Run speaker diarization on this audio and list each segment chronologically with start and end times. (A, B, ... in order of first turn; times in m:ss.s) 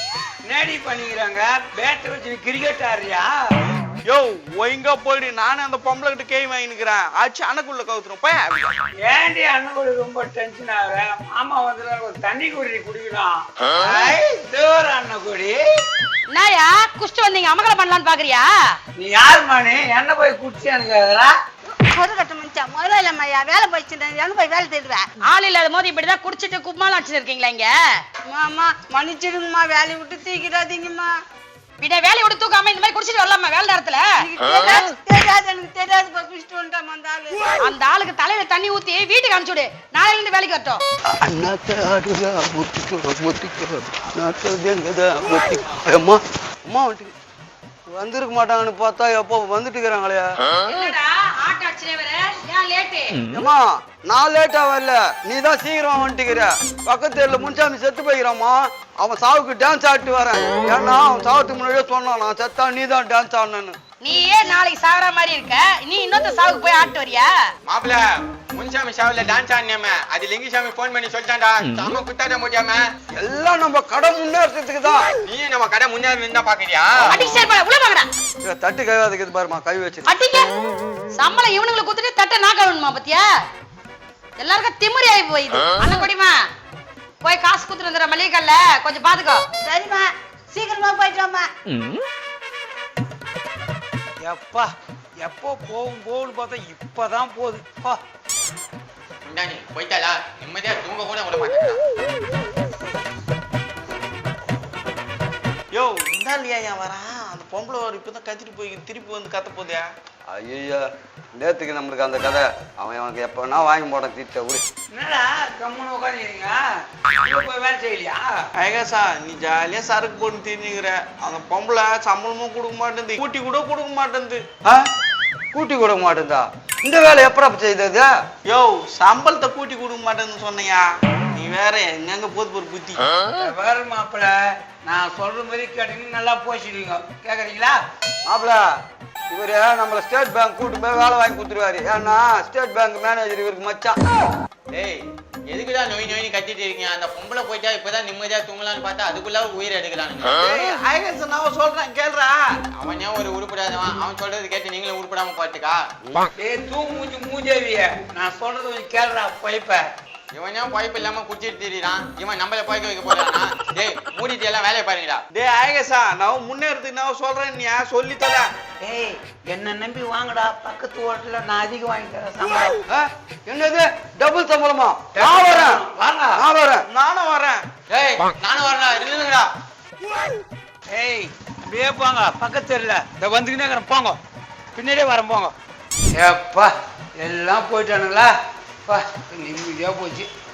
0:00.5-0:03.3 A
0:04.1-0:08.7 B
0:09.0-0:15.6 A
0:16.3-0:18.5 C
0:19.0-0:21.4 A
0:21.8-0:25.1 D
0:25.2-0:27.7 C
0:28.3-0:31.2 D
0:31.8-0:34.2 C
0:34.2-0:37.4 D
0:37.6-0:40.8 C
0:41.2-0:47.1 E
0:48.0-0:50.3 E
0:50.7-0:53.2 C
0:53.3-1:03.8 E
1:04.0-1:07.3 C
1:07.6-1:12.8 F
1:13.2-1:15.1 E
1:15.2-1:17.2 F
1:17.1-1:17.4 E
1:17.1-1:18.1 C
1:18.4-1:20.1 E
1:20.1-1:20.5 C
1:21.1-1:23.2 C
1:24.4-1:26.4 C
1:27.2-1:29.4 C
1:29.6-1:31.5 D
1:34.2-1:38.0 A
1:39.2-1:41.8 F
1:45.7-1:49.9 B
1:50.3-1:50.8 E
1:51.4-1:54.6 E
1:54.9-1:56.6 A
1:57.2-1:58.4 A
1:58.6-2:04.4 B
2:05.5-2:08.1 E
2:08.5-2:13.0 B
2:13.3-2:17.8 A
2:18.3-2:18.6 E
2:19.3-2:24.0 E
2:24.7-2:30.4 F
2:30.4-2:32.4 B
2:32.8-2:35.8 F
2:36.4-2:39.9 A
2:40.3-2:45.2 F
2:45.3-2:48.5 B
2:48.8-2:52.8 A
2:52.9-2:55.8 E
2:55.2-2:56.4 A
2:56.4-2:56.8 E
2:56.9-2:57.6 B
2:57.9-2:59.5 F
3:00.9-3:04.2 A
3:04.8-3:05.5 A
3:06.2-3:08.3 A
3:08.9-3:10.3 A